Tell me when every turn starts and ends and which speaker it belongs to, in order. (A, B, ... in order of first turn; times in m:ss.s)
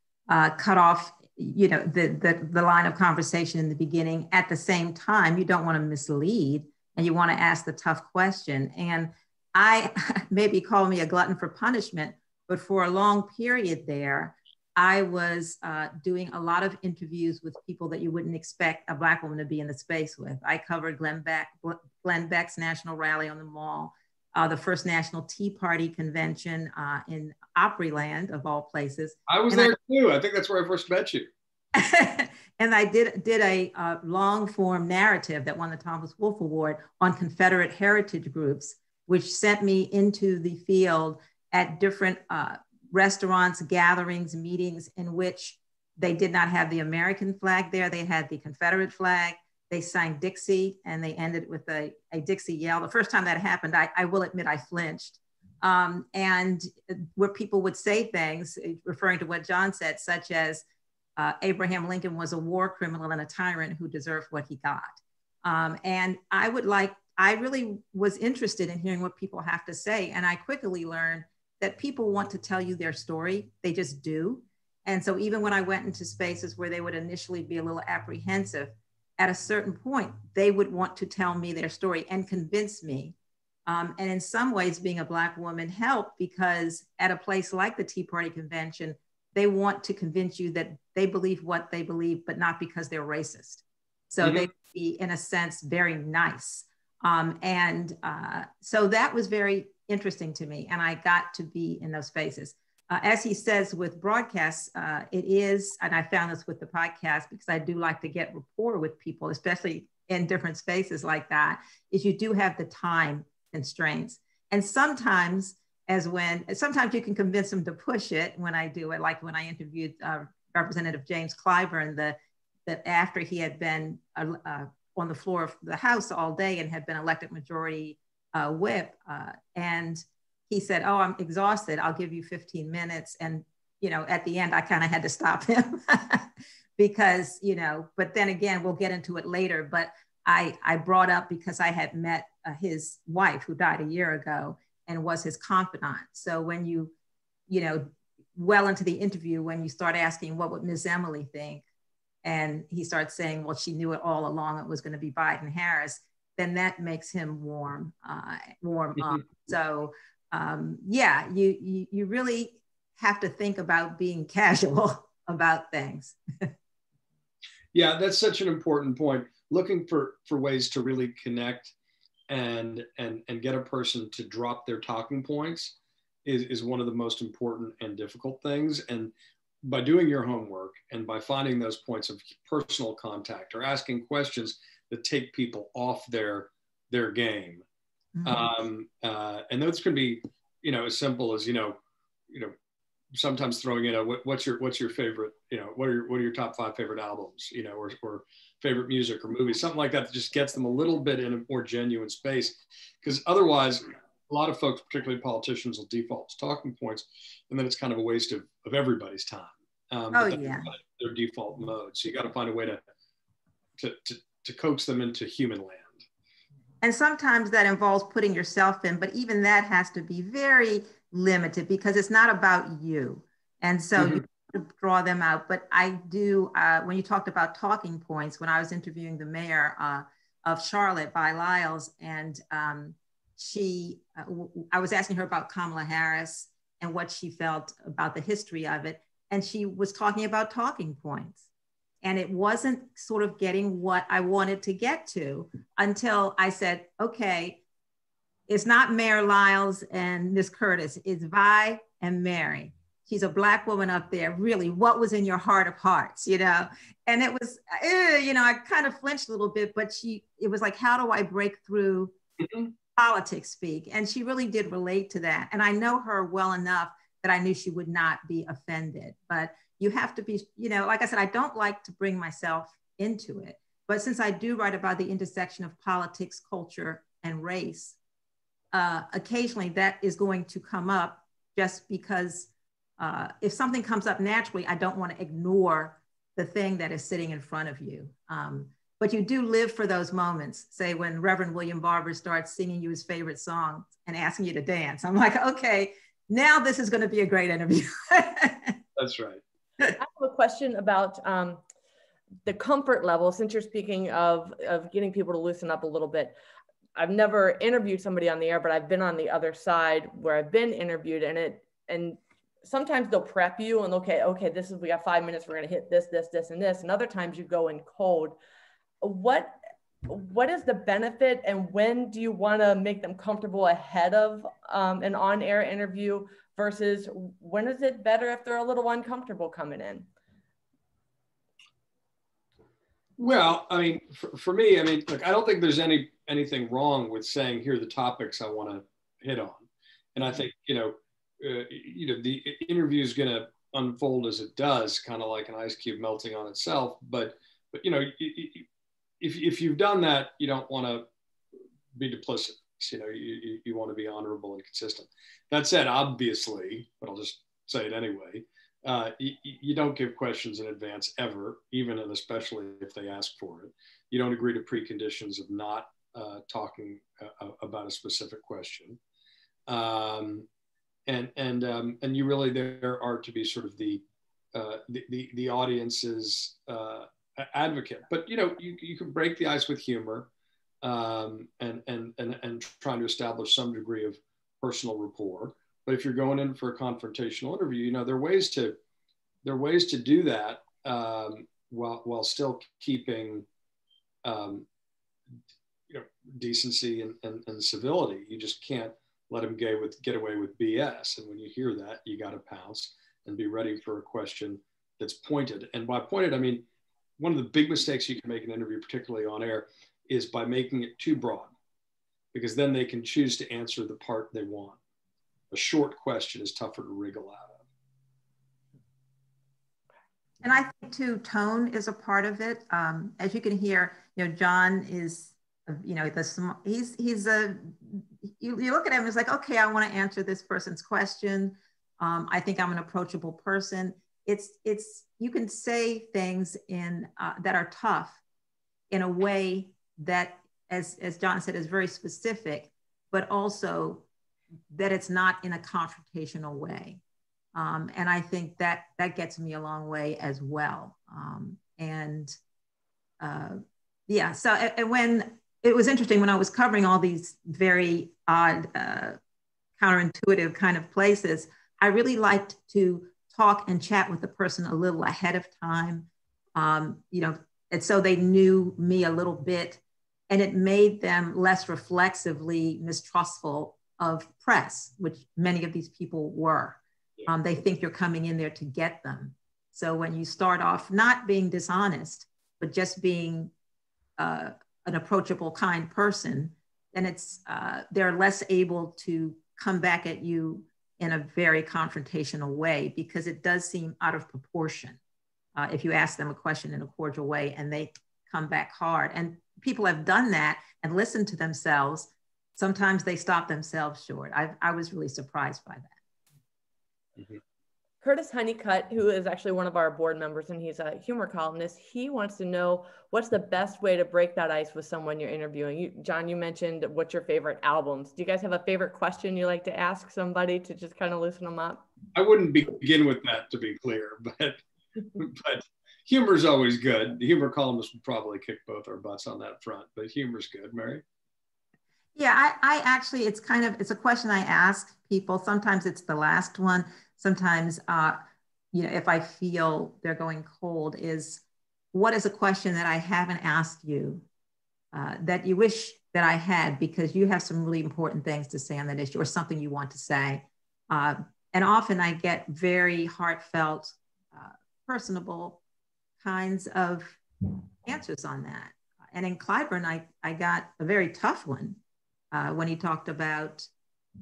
0:00.3-0:29.8 A
0:29.3-0:31.3 B
0:31.7-1:00.6 A
1:01.2-1:23.2 A
1:23.7-2:26.9 A
2:27.5-2:31.6 A
2:32.2-2:46.5 A
2:47.7-2:51.7 B
2:52.3-2:59.1 B
2:59.6-3:07.6 B
3:08.2-3:08.5 A
3:08.2-3:11.8 B
3:13.1-3:32.8 B
3:30.1-3:30.7 A
3:33.8-3:36.0 B
3:36.8-4:01.4 A
3:44.0-3:44.2 B
4:02.0-4:07.6 A
4:08.5-4:22.2 A
4:22.4-4:22.7 B
4:23.0-4:38.0 A
4:38.7-4:58.8 A
4:59.0-4:59.4 B
5:00.0-5:01.6 C
5:02.4-5:06.4 C
5:07.0-5:18.4 C
5:19.0-5:30.1 C
5:33.2-5:48.7 B
5:49.2-5:51.1 B
5:52.0-6:09.0 B
6:09.7-6:10.5 B
6:11.1-6:14.0 B
6:14.5-6:20.3 B
6:20.8-6:28.8 B
6:29.4-6:33.5 B
6:34.2-6:34.7 B
6:35.9-6:46.6 B
6:47.2-6:51.5 B
6:52.3-6:54.8 B
6:55.5-6:57.6 B
7:00.4-7:18.2 A
7:18.9-7:24.1 A
7:24.7-7:27.0 A
7:27.6-7:32.4 A
7:33.2-7:39.2 A
7:39.8-8:03.5 A
8:04.2-8:15.0 A
8:15.6-8:26.0 A
8:28.0-8:41.8 C
8:42.2-8:44.6 B
8:45.2-8:51.0 B
8:52.2-8:58.2 A
8:58.7-9:04.2 A
9:04.9-9:15.6 A
9:16.2-9:17.2 A
9:17.8-9:21.8 A
9:22.3-9:23.7 A